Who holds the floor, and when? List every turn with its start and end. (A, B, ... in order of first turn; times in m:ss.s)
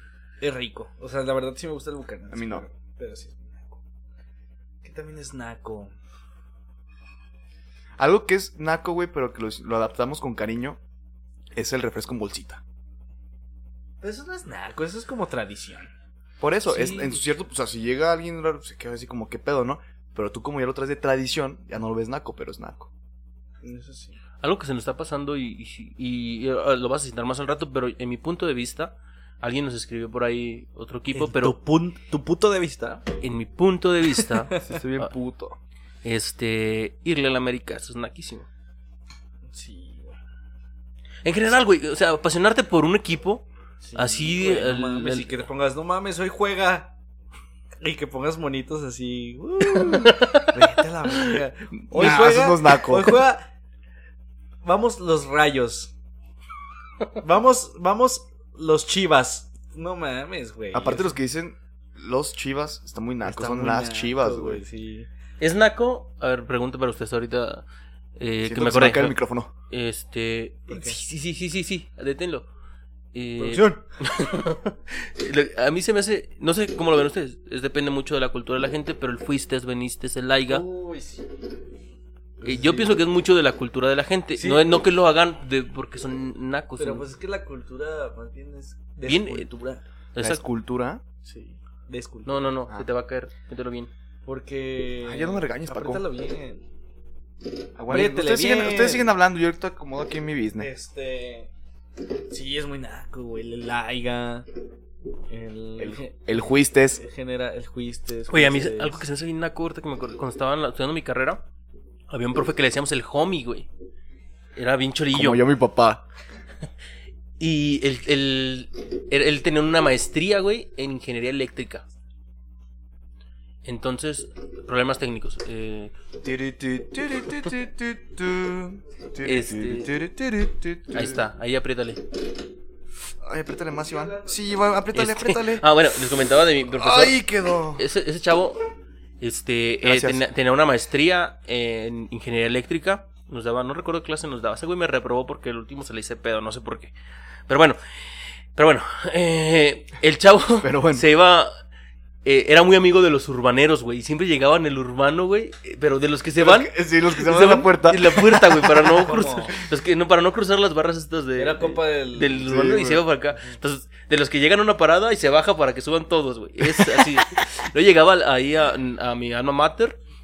0:00.4-0:03.8 A
0:02.3-0:02.6 B
0:04.8-0:05.9 A
0:08.0-0:10.8 B
0:11.5-0:12.6 B
0:14.0-0:15.9 A
0:16.4-0:22.9 B
0:16.7-0:17.2 C
0:23.6-0:24.2 A
0:24.4-0:31.5 C
0:31.1-0:33.0 A
0:33.2-0:35.1 C
0:34.2-0:34.7 A
0:34.6-0:35.6 B
0:36.0-0:38.5 C
0:39.5-0:40.2 A
0:41.2-0:45.4 C
0:43.8-0:46.9 A
0:47.8-0:53.4 A
0:51.9-0:53.2 B
0:54.6-0:55.9 A
0:57.2-1:01.1 A
1:00.7-1:04.6 B
1:03.2-1:05.1 A
1:05.4-1:07.6 C
1:08.2-1:09.2 C
1:08.4-1:09.5 B
1:09.7-1:12.5 C
1:10.7-1:11.0 A
1:13.1-1:20.6 C
1:13.4-1:13.8 A
1:20.5-1:21.4 A
1:22.4-1:23.0 A
1:22.4-1:27.0 C
1:24.4-1:24.7 A
1:26.8-1:29.8 A
1:29.0-1:29.5 C
1:30.1-1:30.4 C
1:30.2-1:31.0 B
1:31.2-1:32.3 A
1:32.2-1:33.9 C
1:34.2-1:36.7 A
1:35.0-1:36.0 B
1:37.8-1:40.7 B
1:37.9-1:39.1 A
1:40.6-1:41.5 A
1:42.1-1:44.5 A
1:45.3-1:49.0 A
1:45.8-1:47.0 B
1:48.3-1:51.4 C
1:52.1-1:53.7 C
1:54.6-1:55.4 C
1:55.1-1:56.0 B
1:57.4-2:01.8 C
2:03.6-2:05.9 C
2:06.2-2:11.2 B
2:09.2-2:09.9 C
2:10.9-2:12.0 C
2:13.2-2:15.6 B
2:14.0-2:14.4 A
2:14.9-2:17.2 C
2:16.6-2:17.8 B
2:17.7-2:18.6 C
2:19.2-2:26.9 C
2:19.8-2:20.2 B
2:27.5-2:27.8 C
2:28.5-2:31.5 C
2:30.6-2:31.1 B
2:32.2-2:50.0 C
2:36.4-2:39.1 B
2:38.9-2:39.6 A
2:41.4-2:42.6 A
2:42.4-2:43.1 B